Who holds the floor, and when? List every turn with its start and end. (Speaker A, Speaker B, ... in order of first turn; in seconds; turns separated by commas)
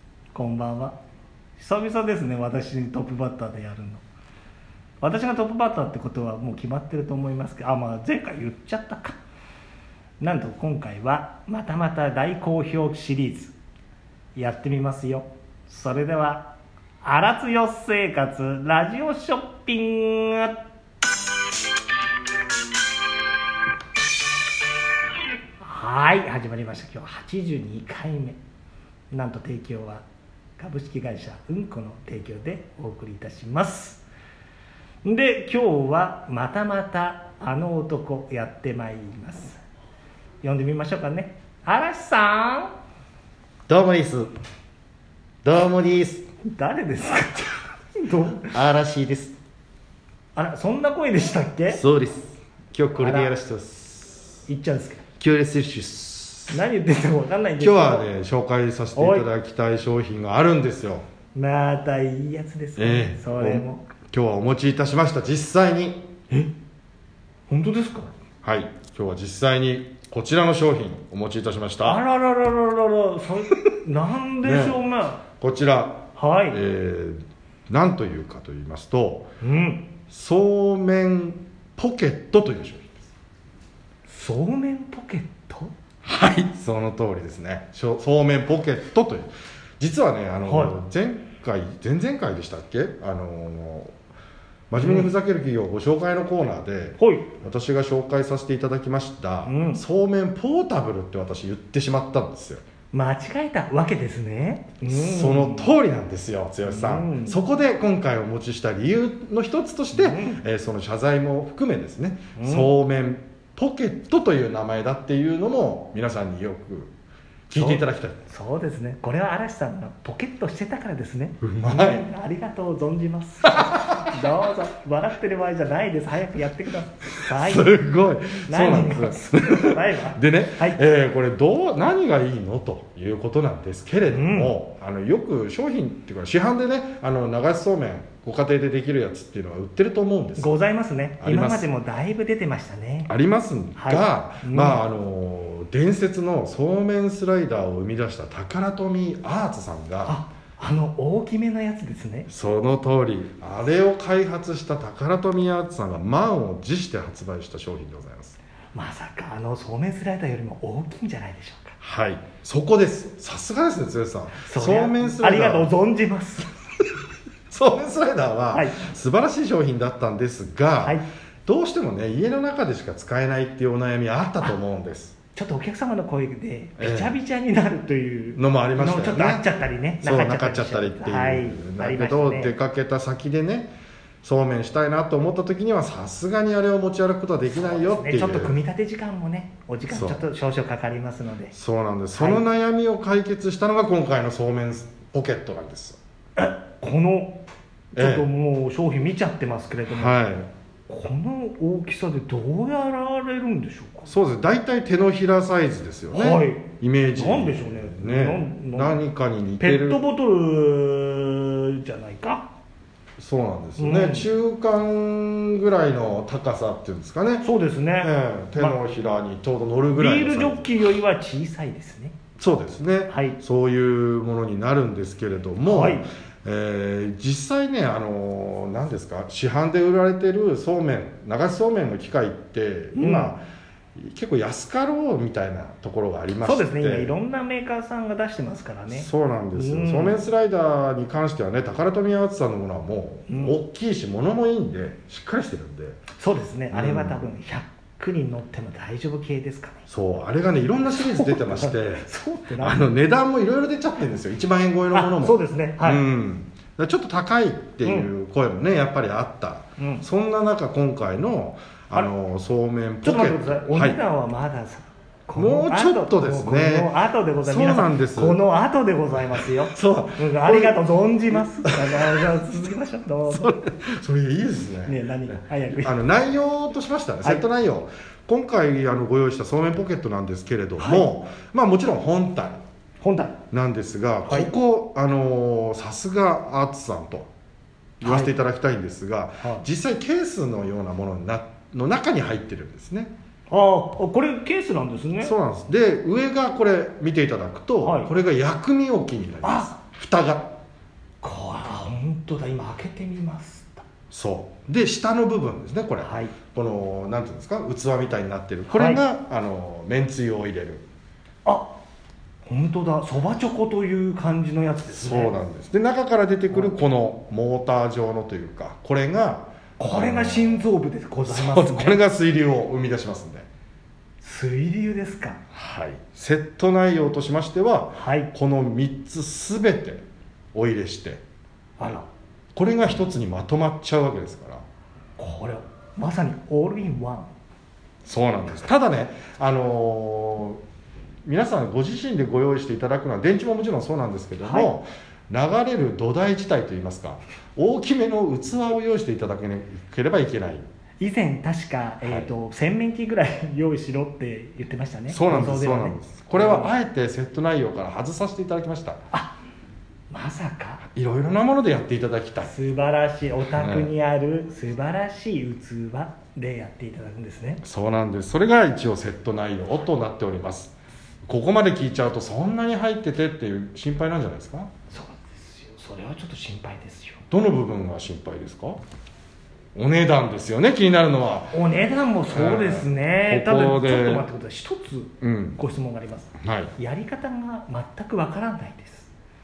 Speaker A: 0.3-1.0, Speaker A: 1.6-4.0, Speaker A: 5.0-9.2, Speaker A: 10.2-13.5, Speaker A: 14.3-16.5, Speaker A: 17.0-20.6, Speaker A: 25.6-28.4, Speaker A: 29.1-30.0, Speaker A: 30.6-34.0, Speaker A: 35.0-39.6, Speaker A: 40.4-42.7, Speaker B: 43.7-44.3, Speaker B: 45.4-46.2, Speaker A: 46.4-48.5, Speaker B: 48.5-49.4, Speaker A: 50.3-51.8, Speaker B: 51.7-54.5, Speaker A: 53.0-53.3, Speaker A: 54.5-55.0, Speaker B: 55.2-56.6, Speaker A: 56.5-58.1, Speaker B: 57.6-61.0, Speaker A: 58.9-59.3, Speaker A: 61.3-63.8, Speaker B: 62.8-66.0, Speaker A: 67.5-68.1, Speaker B: 68.4-72.0, Speaker A: 71.8-75.2, Speaker B: 74.4-74.8, Speaker B: 75.4-79.3, Speaker A: 76.1-76.6, Speaker A: 79.4-79.8, Speaker B: 80.1-83.0, Speaker A: 84.1-85.7, Speaker B: 86.0-93.9, Speaker A: 90.5-90.7, Speaker B: 94.7-102.6, Speaker A: 94.8-95.1, Speaker A: 97.0-97.3, Speaker A: 99.5-99.8, Speaker A: 102.9-105.7, Speaker B: 104.9-116.9, Speaker A: 106.7-107.4, Speaker A: 109.9-110.4, Speaker A: 112.3-112.7, Speaker B: 117.5-118.2, Speaker A: 117.5-127.7, Speaker B: 121.4-122.0, Speaker B: 123.5-124.1, Speaker B: 127.3-140.5, Speaker A: 128.4-130.8, Speaker A: 134.1-134.5, Speaker A: 140.4-143.1, Speaker B: 141.2-141.7, Speaker B: 143.1-150.2, Speaker A: 143.8-144.8, Speaker A: 150.0-152.3, Speaker B: 152.3-158.4, Speaker A: 158.7-161.8, Speaker B: 161.8-165.7, Speaker A: 164.4-166.5, Speaker B: 167.5-175.1, Speaker A: 168.5-168.8, Speaker A: 175.3-182.5, Speaker B: 176.8-177.1, Speaker B: 178.3-179.4, Speaker B: 180.0-188.5, Speaker A: 187.5-191.5, Speaker B: 189.9-190.2, Speaker B: 191.5-196.0, Speaker A: 192.1-192.4, Speaker A: 196.4-197.4, Speaker A: 197.9-200.2, Speaker B: 197.9-198.3, Speaker B: 199.9-200.5, Speaker A: 200.9-204.1, Speaker B: 204.1-210.0, Speaker A: 206.1-209.0, Speaker A: 209.6-212.5, Speaker B: 213.2-217.4, Speaker A: 213.8-214.3, Speaker A: 217.4-218.8, Speaker B: 218.0-220.7, Speaker A: 219.9-222.1, Speaker B: 222.4-233.4, Speaker A: 223.1-223.4, Speaker A: 225.7-226.0, Speaker A: 232.9-233.3, Speaker B: 233.9-237.1, Speaker A: 236.4-240.2, Speaker B: 238.9-246.0, Speaker A: 243.3-243.6, Speaker A: 246.2-249.8, Speaker B: 246.7-247.3, Speaker B: 249.9-252.1, Speaker A: 251.0-252.8, Speaker B: 252.6-264.0, Speaker A: 254.9-256.0, Speaker A: 257.8-258.1, Speaker A: 259.8-260.0, Speaker A: 263.0-273.5, Speaker B: 265.3-268.4, Speaker B: 269.7-272.2, Speaker B: 273.3-282.6, Speaker A: 274.9-275.9, Speaker A: 280.8-281.1, Speaker A: 283.0-283.4, Speaker B: 283.5-287.3, Speaker B: 288.0-293.1, Speaker A: 288.0-288.3, Speaker A: 293.5-295.3, Speaker B: 295.2-300.5, Speaker A: 297.8-298.1, Speaker A: 299.4-299.7, Speaker A: 301.2-303.8, Speaker B: 304.1-310.8, Speaker A: 306.0-306.3, Speaker A: 308.7-309.0, Speaker A: 311.4-311.7, Speaker A: 312.5-315.3, Speaker B: 314.9-320.7, Speaker A: 319.8-322.0, Speaker B: 321.3-323.5, Speaker A: 324.2-325.4, Speaker B: 325.5-330.0, Speaker A: 328.0-328.3, Speaker B: 330.5-331.2, Speaker A: 331.8-332.1, Speaker B: 332.5-334.6, Speaker A: 335.2-337.3, Speaker B: 338.1-340.6, Speaker B: 341.2-350.7, Speaker A: 344.4-344.7, Speaker A: 351.0-356.7, Speaker B: 352.0-352.3, Speaker B: 355.1-359.0, Speaker A: 360.1-360.8, Speaker B: 360.8-362.5, Speaker A: 362.4-367.6, Speaker B: 363.6-363.9, Speaker B: 367.6-370.7, Speaker B: 371.2-374.7, Speaker A: 374.9-377.2, Speaker B: 377.3-378.8, Speaker B: 379.7-381.5, Speaker A: 381.5-389.1, Speaker B: 382.3-384.2, Speaker B: 385.2-385.6, Speaker B: 386.4-386.7